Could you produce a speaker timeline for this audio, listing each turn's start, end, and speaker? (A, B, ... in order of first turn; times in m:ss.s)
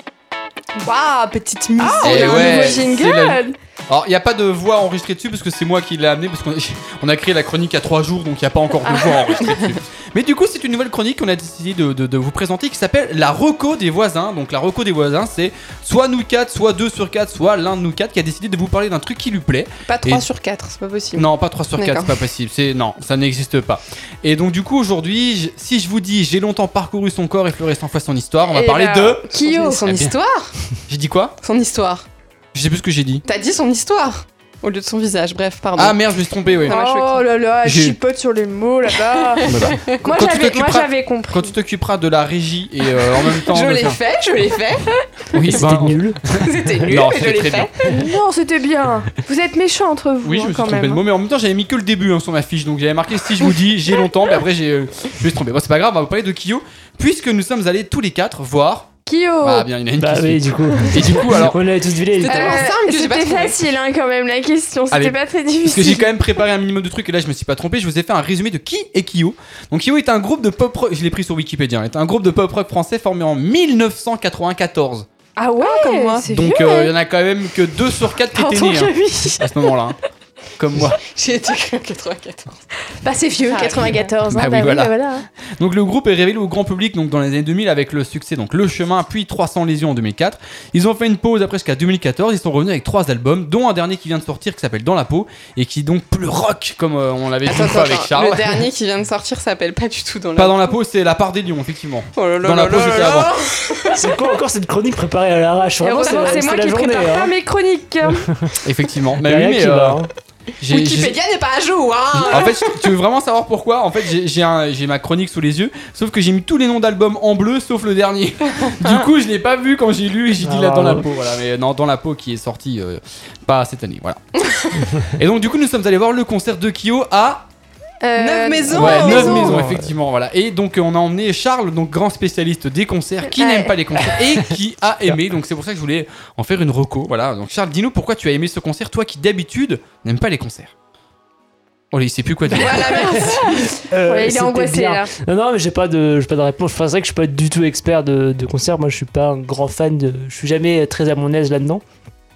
0:00.8-0:03.6 A
0:01.8-0:02.8 B
0:02.0-0:20.2 C
0:08.8-0:09.3 A
0:19.9-0:22.2 B
0:21.2-0:29.3 C
0:28.5-0:29.8 A
0:29.3-0:30.5 B
0:29.8-0:30.1 C
0:30.9-0:31.3 C
0:31.4-0:32.0 B
0:32.5-0:33.2 C
0:33.2-0:36.0 B
0:35.8-0:36.8 C
0:36.5-0:37.3 B
0:36.6-0:39.5 A
0:37.6-0:38.0 C
0:39.2-0:40.0 B
0:39.4-0:44.0 C
0:40.0-0:41.5 A
0:43.0-0:44.9 B
0:45.3-0:47.9 C
0:45.4-0:46.9 D
0:46.3-0:47.8 B
0:47.8-0:51.0 A
0:50.2-1:01.6 C
0:59.0-0:59.7 A
1:00.0-1:02.6 D
1:02.2-1:03.6 B
1:02.2-1:06.1 A
1:04.9-1:15.1 C
1:15.4-1:16.9 A
1:15.6-1:16.3 B
1:16.2-1:20.0 C
1:18.3-1:19.5 A
1:20.6-1:21.0 C
1:21.0-1:22.6 B
1:23.0-1:25.2 A
1:23.5-1:24.1 B
1:24.3-1:24.9 C
1:25.6-1:38.6 C
1:37.4-1:40.7 B
1:40.4-1:43.3 C
1:42.2-1:44.0 B
1:43.9-1:47.3 D
1:45.8-1:48.3 A
1:46.0-1:46.9 B
1:48.6-1:50.0 C
1:49.2-1:50.1 D
1:50.6-1:51.2 C
1:50.7-1:52.9 B
1:52.1-2:04.4 C
1:58.8-1:59.0 B
2:00.4-2:01.0 D
2:05.0-2:07.4 C
2:08.0-2:09.6 A
2:08.2-2:09.7 B
2:08.7-2:20.7 C
2:09.3-2:09.9 D
2:13.3-2:13.8 A
2:21.9-2:23.3 C
2:22.5-2:23.7 B
2:22.9-2:31.8 D
2:23.4-2:25.1 A